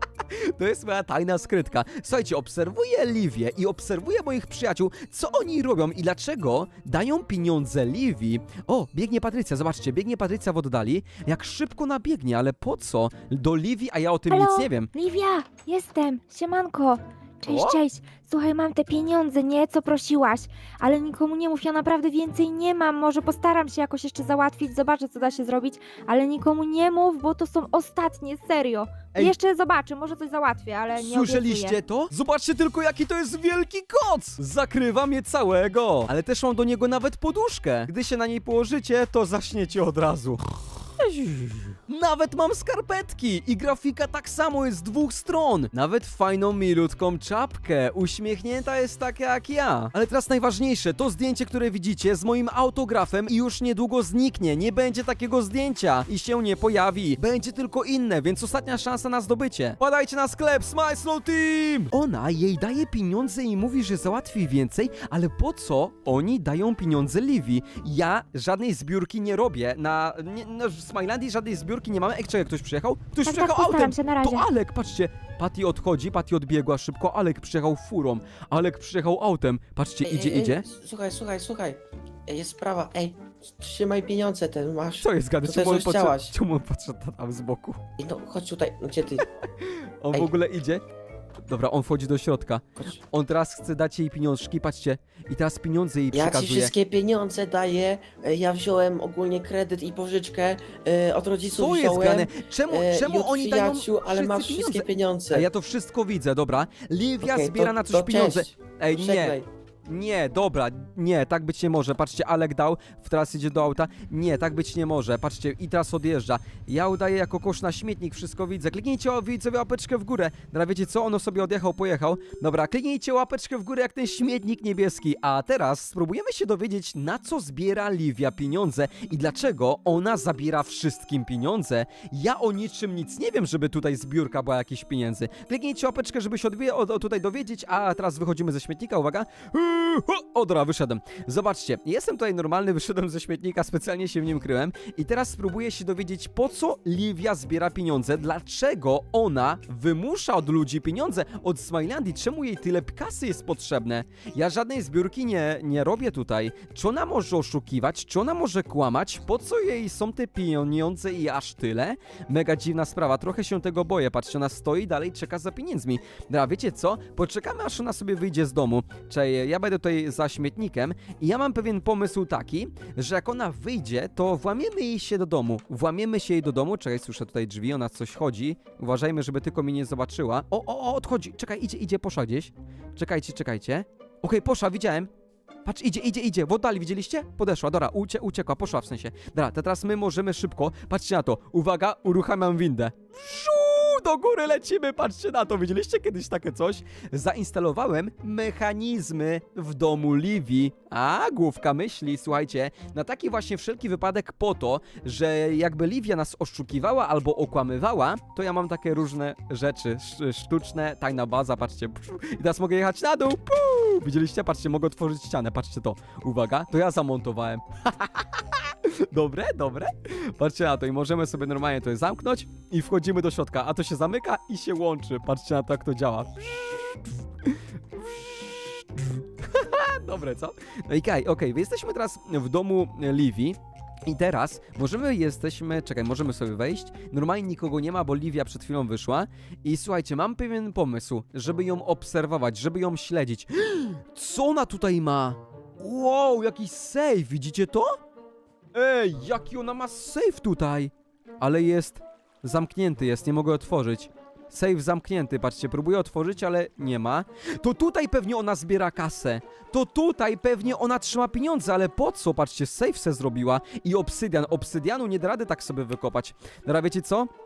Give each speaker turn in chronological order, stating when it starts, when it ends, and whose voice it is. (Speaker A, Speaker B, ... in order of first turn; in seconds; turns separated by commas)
Speaker A: 0.3-14.9, Speaker B: 14.3-31.8, Speaker A: 17.4-17.8, Speaker A: 30.9-40.4, Speaker A: 41.0-80.6, Speaker B: 73.2-74.5, Speaker C: 80.0-86.3, Speaker A: 85.0-87.8, Speaker C: 88.0-89.2, Speaker A: 90.0-90.8, Speaker A: 91.5-96.7, Speaker C: 96.1-105.5, Speaker A: 101.5-185.1, Speaker C: 107.2-109.5, Speaker A: 185.6-227.1, Speaker A: 227.9-228.4, Speaker A: 228.9-247.9, Speaker A: 248.7-267.3